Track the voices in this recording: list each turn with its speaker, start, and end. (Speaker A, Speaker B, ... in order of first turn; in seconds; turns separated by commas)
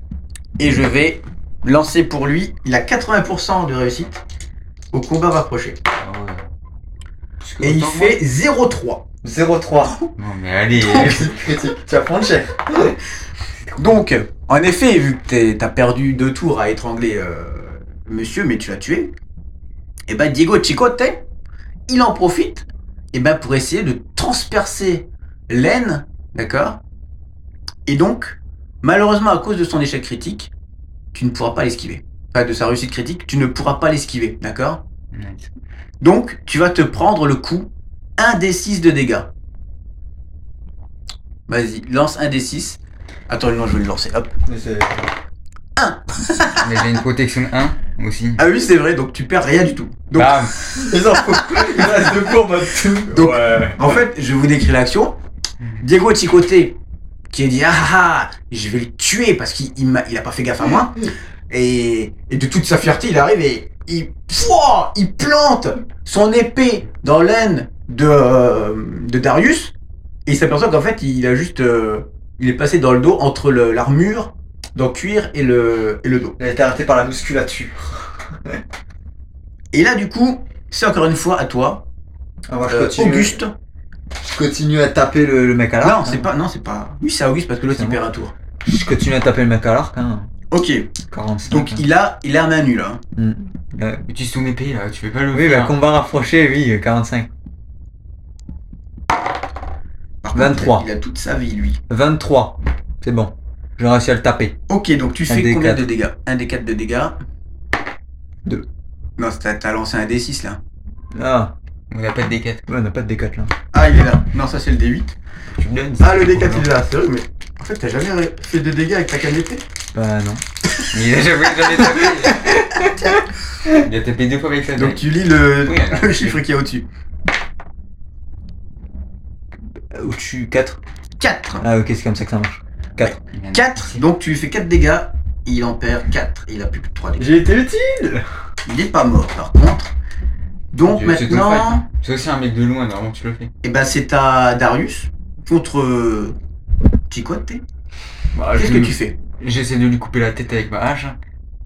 Speaker A: 0.6-4.2, Speaker A: 4.9-5.8, Speaker B: 6.0-6.5, Speaker B: 7.4-8.2, Speaker A: 7.6-9.0, Speaker C: 9.2-10.0, Speaker B: 10.2-11.3, Speaker C: 10.8-13.0, Speaker A: 13.8-19.1, Speaker A: 20.1-21.2, Speaker A: 21.9-26.8, Speaker A: 27.9-30.5, Speaker A: 31.1-34.8, Speaker B: 35.1-35.5, Speaker A: 36.0-39.3, Speaker A: 41.5-44.3, Speaker C: 44.5-45.1, Speaker A: 45.8-46.8, Speaker B: 46.6-48.4, Speaker A: 48.4-51.8, Speaker B: 50.1-50.5, Speaker C: 50.8-53.9, Speaker A: 53.1-55.2, Speaker A: 55.8-56.8, Speaker A: 57.3-69.7, Speaker A: 70.3-76.4, Speaker C: 76.4-78.6, Speaker A: 79.7-81.8, Speaker C: 82.5-83.4, Speaker A: 82.7-83.5, Speaker C: 84.2-86.3, Speaker A: 85.8-88.3, Speaker C: 87.7-88.0, Speaker C: 88.7-90.3, Speaker A: 90.5-90.9, Speaker C: 91.1-91.8, Speaker A: 91.5-93.0, Speaker C: 93.2-94.0, Speaker B: 94.1-95.7, Speaker C: 95.3-97.3, Speaker A: 100.2-101.8, Speaker C: 100.3-100.8, Speaker C: 101.9-104.5, Speaker A: 104.7-107.2, Speaker C: 105.3-105.9, Speaker A: 109.2-110.6, Speaker C: 111.1-111.5, Speaker B: 111.9-112.6, Speaker C: 112.7-113.5, Speaker A: 113.7-115.1, Speaker B: 115.5-116.7, Speaker A: 116.0-119.6, Speaker C: 119.9-120.4, Speaker B: 120.9-122.6, Speaker C: 121.8-123.2, Speaker B: 123.7-125.1, Speaker A: 124.8-126.8, Speaker B: 125.6-126.4, Speaker C: 129.9-130.8, Speaker A: 131.2-131.7, Speaker C: 131.6-133.2, Speaker A: 133.1-137.3, Speaker B: 133.3-134.1, Speaker C: 137.2-138.2, Speaker A: 138.7-139.9, Speaker A: 140.7-141.8, Speaker B: 140.8-143.5, Speaker A: 143.6-146.4, Speaker A: 147.1-147.6, Speaker B: 148.3-151.2, Speaker A: 148.6-149.2